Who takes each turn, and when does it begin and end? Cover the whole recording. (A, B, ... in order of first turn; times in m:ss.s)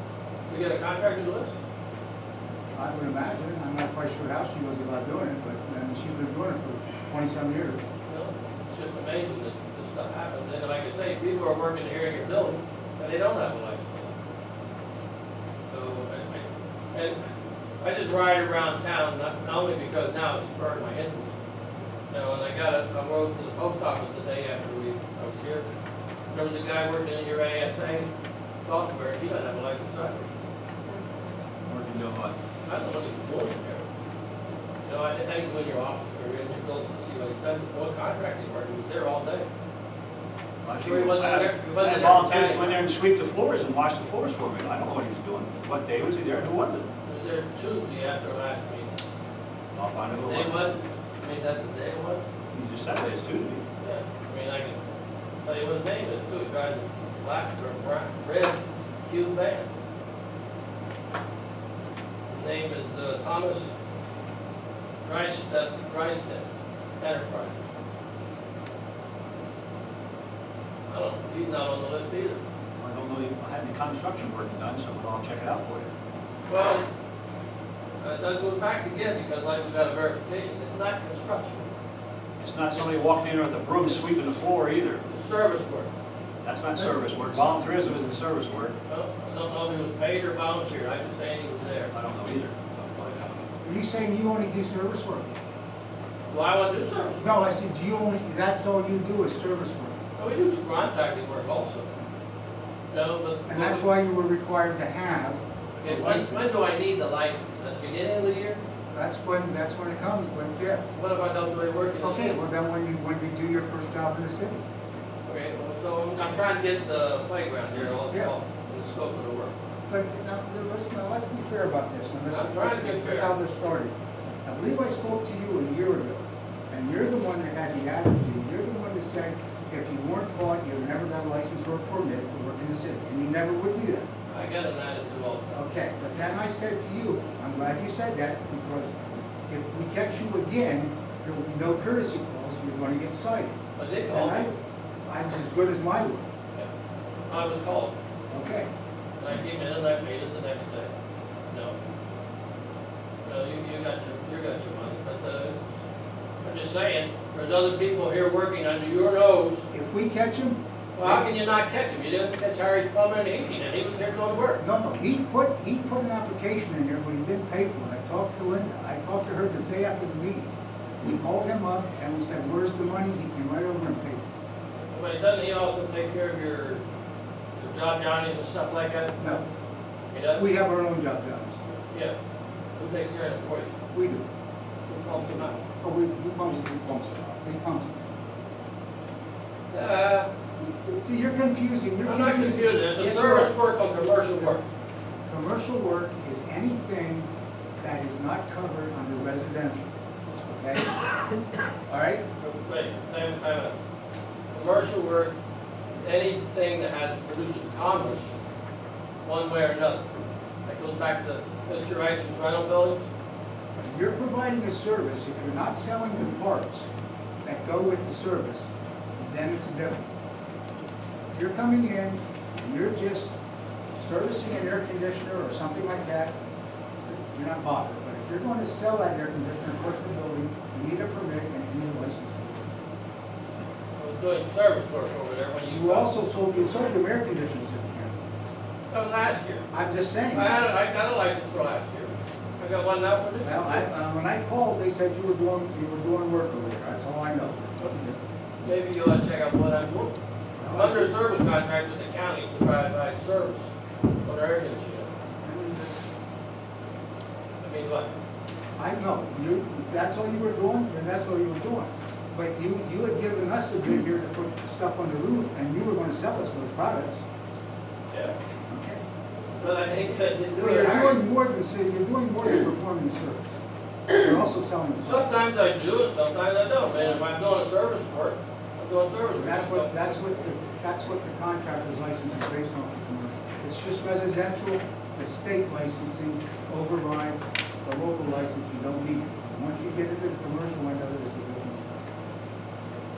0:00.5-0:01.6 A
0:02.7-0:07.8 B
0:08.1-0:14.1 A
0:15.7-0:17.2 A
0:17.8-0:21.3 A
0:22.1-0:25.7 A
0:26.3-0:28.1 A
0:28.6-0:30.2 A
0:31.7-0:32.3 C
0:32.6-0:33.8 A
0:34.8-0:39.5 A
0:40.6-0:46.9 C
0:40.8-0:42.8 A
0:47.0-0:49.0 A
0:49.7-0:50.6 C
0:50.2-0:52.2 A
0:52.5-0:53.6 C
0:53.8-0:54.8 A
0:55.4-0:59.7 A
1:02.3-1:03.7 A
1:05.0-1:06.4 A
1:07.0-1:07.6 A
1:10.9-1:12.4 A
1:12.8-1:15.9 C
1:16.5-1:16.8 A
1:18.0-1:21.7 A
1:22.4-1:25.0 C
1:25.1-1:25.9 A
1:26.4-1:28.7 C
1:26.7-1:27.7 B
1:28.9-1:31.9 A
1:31.9-1:33.4 C
1:33.6-1:35.3 B
1:36.3-1:37.3 A
1:37.2-1:40.0 B
1:40.2-1:41.9 A
1:42.9-1:43.9 A
1:43.5-1:46.5 B
1:45.7-1:48.6 A
1:48.9-1:50.8 B
1:51.0-1:52.4 A
1:52.0-1:54.6 B
1:55.2-1:59.5 A
1:57.8-1:58.3 B
1:59.9-2:03.9 B
2:02.3-2:03.4 A
2:04.4-2:14.1 B
2:14.3-2:15.5 A
2:15.5-2:23.5 B
2:23.8-2:24.5 A
2:24.1-2:24.5 B
2:25.1-2:26.2 B
2:27.3-2:27.9 A
2:28.3-2:28.7 B
2:29.2-2:30.9 A
2:31.5-2:31.8 A
2:33.2-2:35.6 A
2:36.4-2:39.6 A
2:39.7-2:41.3 B
2:41.0-2:44.6 A
2:44.6-2:50.5 B
2:51.0-2:54.2 B
2:54.9-2:56.8 A
2:57.6-2:59.4 A
3:00.1-3:00.4 A
3:00.4-3:01.6 B
3:02.8-3:03.7 A
3:03.9-3:04.2 B
3:04.9-3:05.6 A
3:05.8-3:08.0 B
3:09.7-3:10.3 A
3:10.6-3:13.5 B
3:12.0-3:14.6 A
3:15.3-3:17.3 B
3:17.8-3:19.9 B
3:20.5-3:21.0 B
3:21.9-3:22.2 B
3:22.4-3:23.8 A
3:24.5-3:25.3 A
3:26.0-3:28.3 A
3:29.2-3:30.0 A
3:30.6-3:33.0 A
3:33.8-3:36.9 B
3:37.4-3:38.7 B
3:39.2-3:40.0 B
3:41.3-3:43.3 B
3:43.9-3:46.3 B
3:47.0-3:52.7 B
3:54.0-3:56.1 A
3:55.7-3:58.2 B
3:58.9-3:59.7 A
3:59.7-4:00.6 B
4:00.3-4:03.8 A
4:03.4-4:08.2 B
4:08.6-4:10.1 A
4:10.6-4:11.1 B
4:10.7-4:13.7 A
4:14.2-4:15.1 A
4:15.4-4:16.0 B
4:17.6-4:18.1 A
4:18.8-4:27.2 B
4:28.1-4:28.4 A
4:28.7-4:29.0 B
4:29.6-4:31.2 A
4:29.9-4:33.5 B
4:34.1-4:35.3 B
4:35.0-4:40.3 A
4:39.3-4:52.0 B